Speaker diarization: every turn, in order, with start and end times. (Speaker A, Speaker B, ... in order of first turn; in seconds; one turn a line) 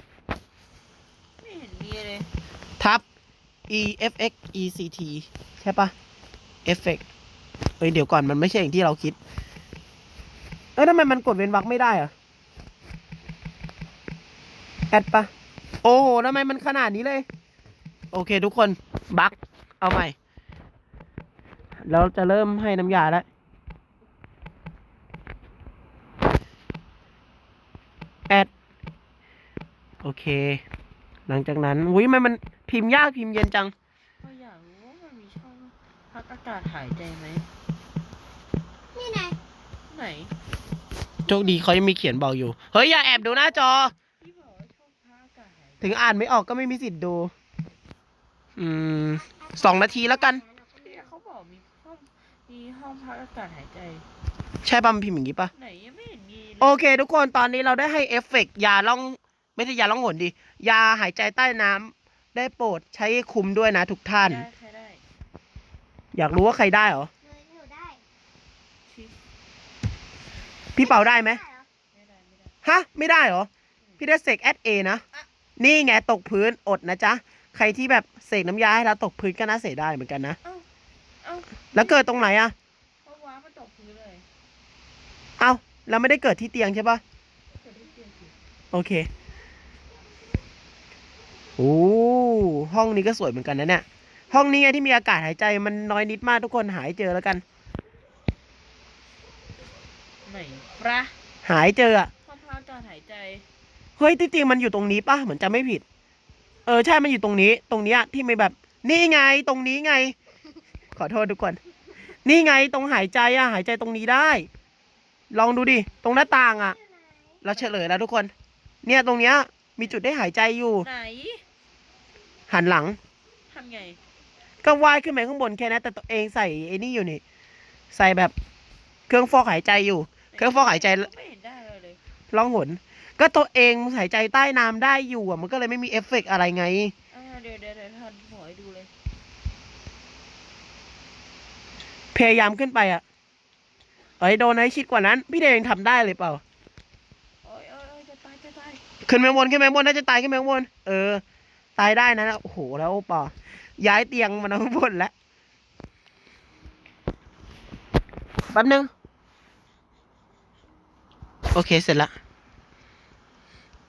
Speaker A: 1.4-2.3
Speaker B: 2.8-3.0
Speaker B: 3.7-5.9
Speaker B: 6.6-7.0
Speaker B: 7.8-9.2
Speaker B: 10.8-12.1
Speaker B: 14.9-15.3
Speaker B: 15.8-17.2
Speaker B: 18.1-20.1
Speaker B: 21.8-23.2
Speaker B: 30.0-30.6
Speaker B: 31.3-33.7
Speaker A: 34.2-37.5
Speaker C: 38.9-39.4
Speaker A: 39.9-40.3
Speaker C: 41.3-41.6
Speaker B: 41.3-43.9
Speaker A: 44.2-46.1
Speaker B: 45.8-47.3
Speaker B: 48.6-50.4
Speaker C: 49.1-51.1
Speaker A: 50.8-54.0
Speaker B: 54.6-55.5
Speaker A: 55.5-56.8
Speaker B: 56.6-64.4
Speaker A: 64.1-65.0
Speaker B: 66.1-67.1
Speaker C: 67.2-68.0
Speaker A: 68.9-69.1
Speaker B: 70.7-71.4
Speaker C: 70.8-71.7
Speaker A: 71.9-72.5
Speaker B: 72.6-75.0
Speaker B: 75.6-80.4
Speaker A: 81.2-82.2
Speaker B: 81.7-82.5
Speaker A: 83.0-84.2
Speaker B: 85.4-87.0
Speaker A: 87.6-88.3
Speaker B: 88.7-89.1
Speaker B: 91.6-97.4
Speaker A: 100.2-101.1
Speaker B: 101.4-102.1
Speaker A: 102.2-103.4
Speaker B: 104.0-105.8
Speaker B: 106.7-110.2
Speaker B: 111.0-111.6
Speaker B: 112.2-114.5
Speaker B: 115.3-116.8
Speaker C: 116.0-117.4
Speaker B: 117.4-118.3
Speaker B: 118.8-120.9
Speaker A: 120.8-121.4
Speaker B: 122.5-123.0
Speaker A: 123.5-124.0
Speaker B: 124.6-127.2
Speaker B: 127.9-128.3
Speaker B: 129.1-131.1
Speaker A: 130.3-132.0
Speaker B: 132.3-136.9
Speaker A: 137.1-138.9
Speaker B: 142.1-143.0
Speaker B: 144.2-146.4
Speaker A: 147.4-148.8
Speaker B: 149.1-151.2
Speaker B: 151.8-155.1
Speaker B: 158.5-158.9
Speaker B: 161.5-162.1